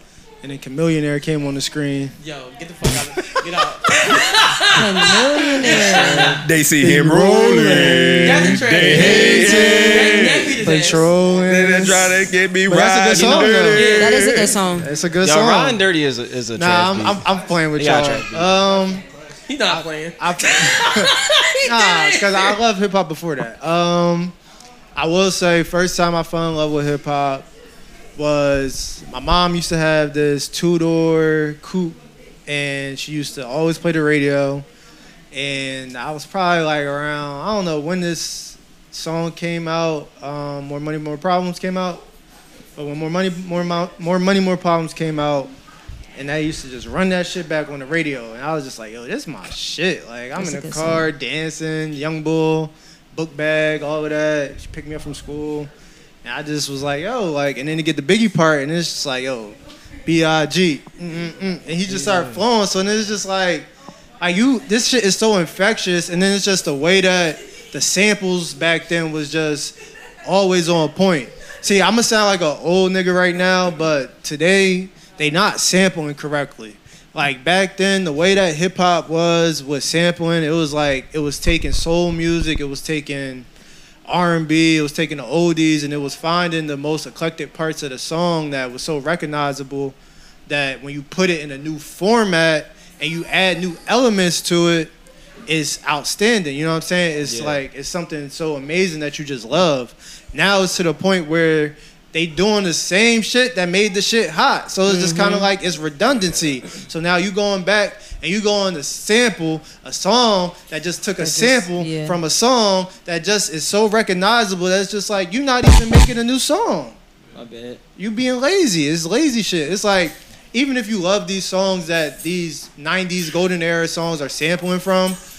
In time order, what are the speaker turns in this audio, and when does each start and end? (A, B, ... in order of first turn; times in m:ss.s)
0:00.4-0:02.2 A
0:02.2-0:06.4 B
0:04.7-0:06.4 C
0:06.4-0:10.6 D
0:06.8-0:13.9 A
0:08.2-0:11.0 B
0:11.4-0:14.6 D
0:13.1-0:13.5 E
0:13.7-0:14.2 B
0:13.8-0:14.9 C
0:14.8-0:15.8 A
0:15.2-0:17.2 E
0:16.5-0:19.0 A
0:17.7-0:18.6 E
0:19.5-0:22.6 B
0:19.7-0:24.3 A
0:25.0-0:27.5 A
0:28.2-0:34.6 A
0:35.3-0:42.0 A
0:42.8-0:45.5 A
0:46.2-0:55.7 A
0:50.4-0:51.1 C
0:56.2-1:03.7 A
1:01.9-1:02.4 E
1:04.2-1:23.5 A
1:24.0-1:30.0 A
1:30.5-1:34.9 A
1:35.5-1:57.0 A
1:37.2-1:37.6 E
1:44.9-1:45.5 C
1:51.2-1:52.2 C
1:57.3-1:57.8 B
1:58.0-2:05.2 A